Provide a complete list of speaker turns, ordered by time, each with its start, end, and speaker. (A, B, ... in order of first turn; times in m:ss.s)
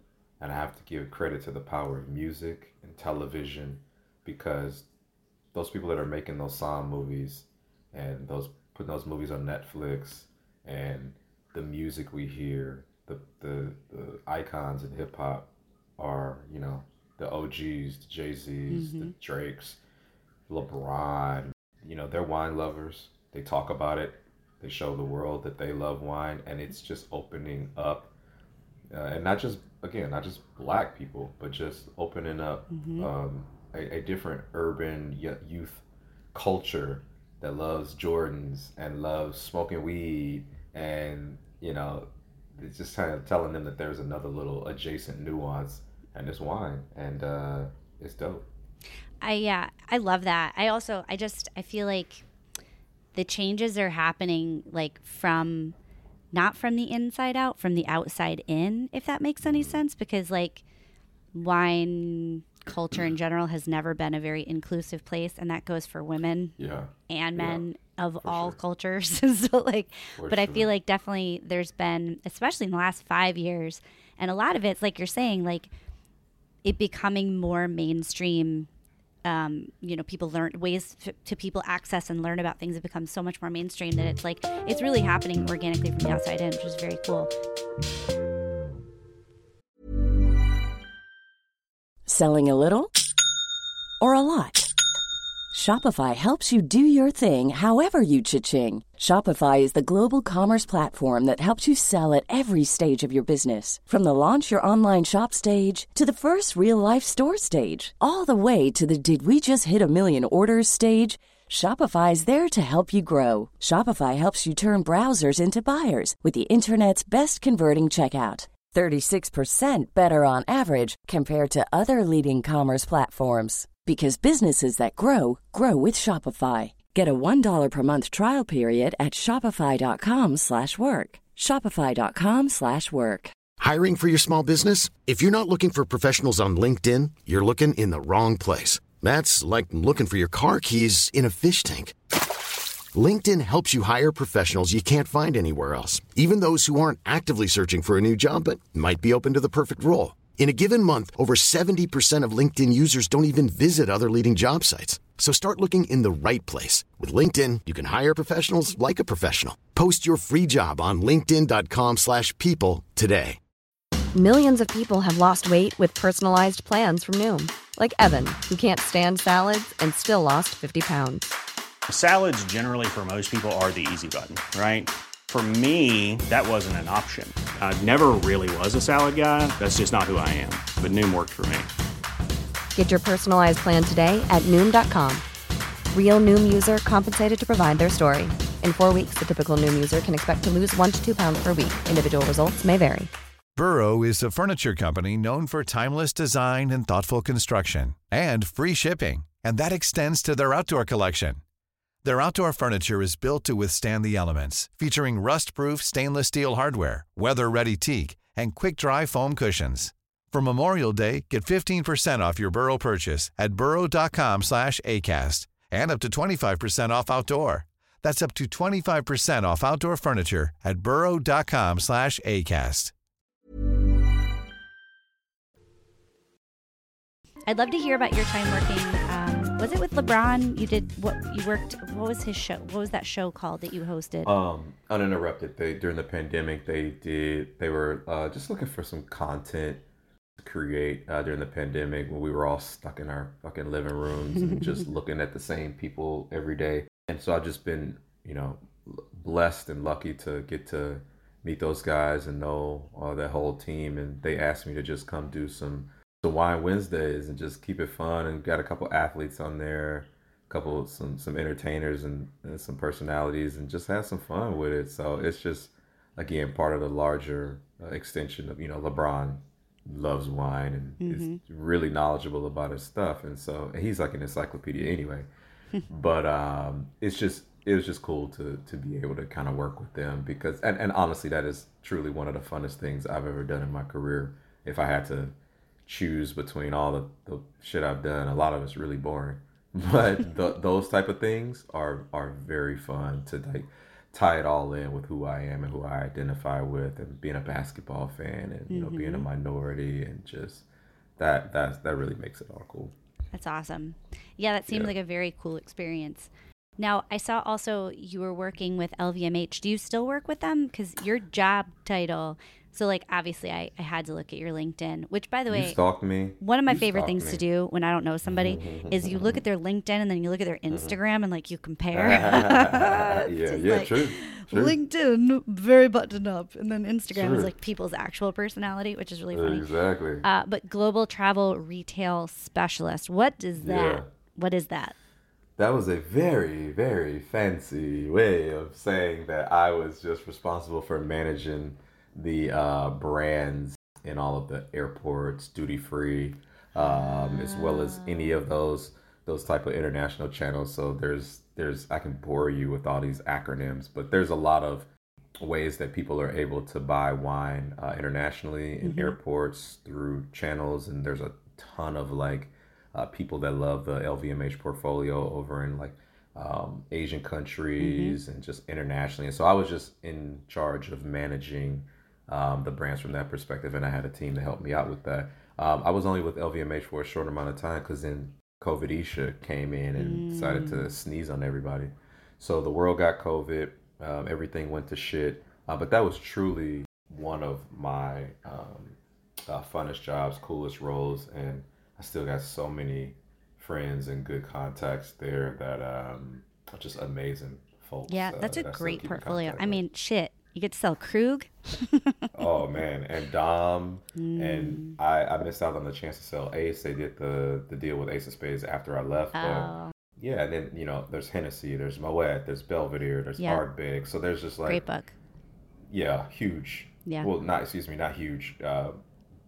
0:00.4-0:04.9 A
0:05.5-0:19.8 A
0:18.7-0:19.1 B
0:20.5-0:28.1 A
0:28.9-0:48.5 A
0:32.7-0:33.1 B
0:49.2-0:52.2 B
0:53.1-0:55.8 B
0:56.3-1:00.6 B
0:59.4-0:59.8 A
1:01.3-1:06.6 B
1:06.6-1:07.6 A
1:07.1-1:15.7 B
1:08.2-1:08.6 A
1:10.2-1:10.7 A
1:16.6-1:18.7 B
1:19.2-1:27.3 B
1:32.1-1:32.9 C
1:34.0-1:34.7 C
1:35.5-2:13.3 C
2:13.6-2:22.0 D
2:22.9-2:43.4 D
2:44.1-2:51.3 E
2:51.9-3:01.7 F
3:02.7-3:05.2 E
3:05.9-3:13.1 E
3:13.6-3:21.4 G
3:22.0-3:42.9 G
3:47.5-3:54.3 B
3:54.2-3:59.8 A
4:00.4-4:35.3 A
4:31.0-4:31.4 B
4:35.9-5:00.6 A
4:58.7-4:59.3 B
5:01.2-5:02.9 A
5:03.3-5:15.8 B
5:15.5-5:17.4 A
5:16.4-5:29.7 B
5:18.2-5:19.4 A
5:20.7-5:21.0 A
5:21.9-5:24.8 A
5:27.1-5:27.5 A
5:29.3-5:30.2 A
5:30.2-5:34.9 B
5:33.6-5:34.1 A
5:35.6-5:54.9 A
5:46.8-5:48.4 B
5:55.4-6:39.8 A
5:58.8-5:59.2 B
6:07.8-6:08.2 B
6:20.0-6:20.9 B
6:38.1-6:42.3 B
6:42.3-6:54.8 A
6:44.2-6:45.0 B
6:49.4-6:49.9 B
6:54.6-6:55.1 B
6:55.9-6:59.0 A
6:57.1-6:57.3 B